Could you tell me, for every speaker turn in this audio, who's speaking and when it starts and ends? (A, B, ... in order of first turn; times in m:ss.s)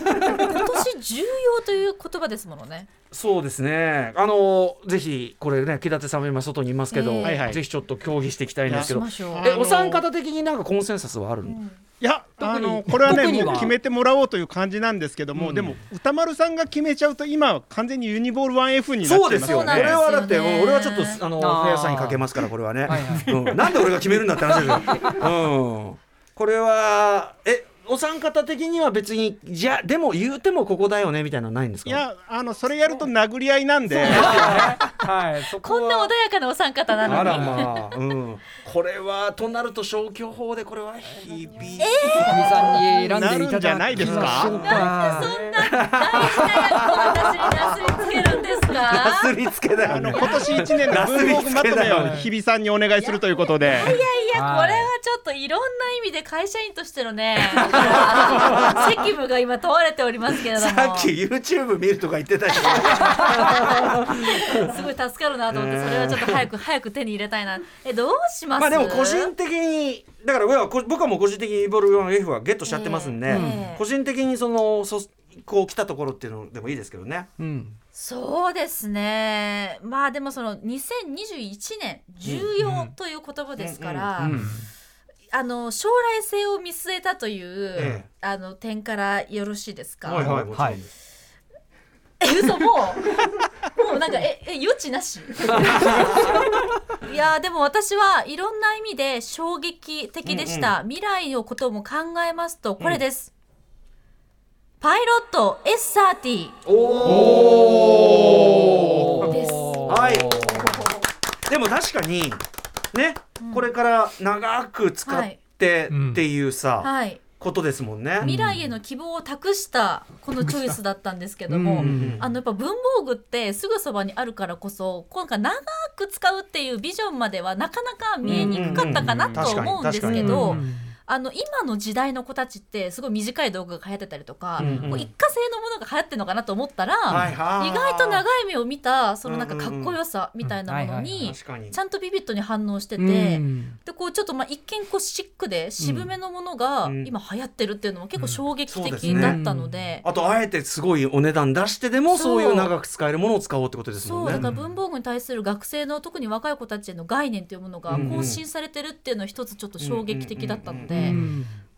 0:00.2-0:02.9 A
0:03.1-0:11.6 B
0:06.9-0:07.4 A
0:07.2-0:07.6 C
0:08.7-0:10.0 C
0:08.7-0:09.5 A
0:11.4-0:11.8 A
0:12.0-0:20.0 C
0:12.4-0:13.8 D
0:15.4-0:15.8 B
0:19.0-0:32.0 B
0:19.4-0:21.2 A
0:21.4-0:22.3 D
0:22.9-0:23.9 D
0:24.7-0:25.2 D
0:31.9-0:34.8 C
0:34.0-0:34.6 A
0:34.1-0:36.1 E
0:34.4-0:34.9 D
0:35.6-0:38.0 A
0:37.0-0:42.7 B
0:37.2-0:37.5 E
0:41.8-0:42.8 A
0:42.2-0:45.3 D
0:43.0-0:44.6 C
0:43.9-0:52.2 B
0:44.6-0:49.3 A
0:49.8-0:54.0 C
0:50.1-0:50.9 A
0:53.1-1:01.1 A
0:54.3-0:54.9 D
0:57.5-0:59.0 B
1:00.3-1:04.8 B
1:02.7-1:09.3 A
1:05.5-1:06.5 B
1:08.6-1:17.3 B
1:12.7-1:13.8 A
1:13.3-1:13.7 D
1:17.4-1:17.8 D
1:17.9-1:24.4 A
1:22.2-1:22.5 B
1:22.6-1:22.9 E
1:23.6-1:24.4 B
1:24.2-1:24.6 D
1:25.3-1:30.4 A
1:27.8-1:28.1 B
1:30.0-1:30.9 B
1:30.2-1:30.8 D
1:32.2-1:43.3 A
1:35.4-1:36.5 B
1:40.2-1:40.7 B
1:44.8-1:46.6 A
1:46.6-1:49.3 B
1:47.1-1:50.9 D
1:49.2-1:50.7 A
1:49.9-1:50.9 B
1:51.5-1:52.4 B
1:52.9-1:58.3 B
1:53.4-1:53.7 A
1:55.0-1:55.4 A
1:55.9-1:56.2 E
1:56.8-1:57.2 A
1:58.2-1:58.7 D
1:58.2-2:30.0 A
2:01.5-2:02.2 D
2:01.8-2:02.2 B
2:08.2-2:10.9 D
2:08.3-2:10.6 B
2:14.6-2:15.0 D
2:14.6-2:15.1 B
2:17.1-2:18.2 B
2:19.2-2:20.0 B
2:20.7-2:21.2 D
2:21.2-2:21.8 B
2:23.0-2:23.8 D
2:25.8-2:26.1 D
2:26.8-2:27.1 B
2:28.7-2:29.4 B
2:29.0-2:29.8 D
2:30.0-2:34.5 B
2:32.1-2:32.7 A
2:34.0-2:41.2 A
2:37.9-2:38.4 B
2:39.8-2:41.3 B
2:40.9-2:41.6 D